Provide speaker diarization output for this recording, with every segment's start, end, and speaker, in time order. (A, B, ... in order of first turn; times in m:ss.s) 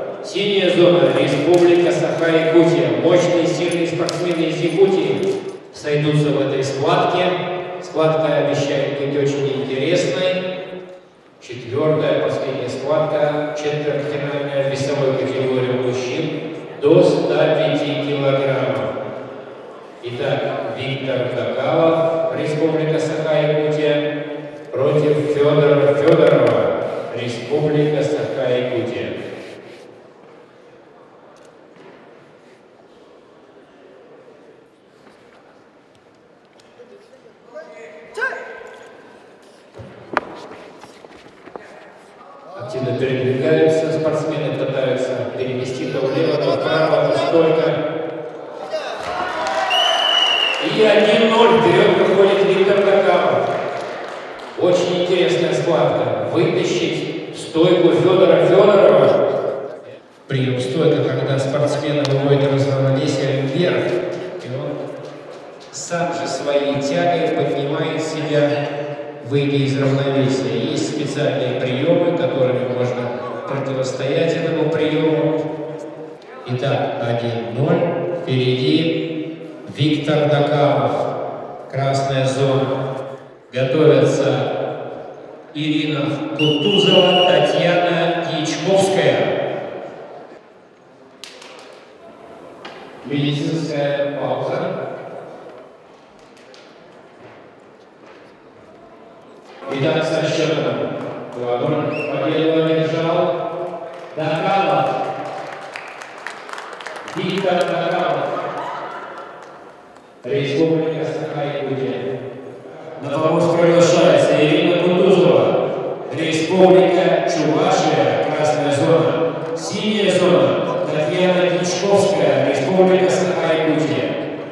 0:00.2-0:10.4 A
0:11.4-0:18.9 A
0:20.0-0:24.0 A
0:24.7-0:29.2 A
0:42.5-0:47.8 A
0:50.6-0:53.5 A
0:54.5-0:59.2 A
1:00.3-1:04.7 A
1:05.7-1:08.6 A
1:09.2-1:15.4 A
1:16.4-1:19.1 A
1:19.6-1:21.0 A
1:21.7-1:22.8 A
1:23.5-1:24.5 A
1:25.5-1:29.3 A
1:33.0-1:34.8 A
1:39.7-1:43.4 A
1:44.1-1:44.9 A
1:47.0-1:48.3 A
1:50.2-1:52.1 A
1:53.0-2:04.2 A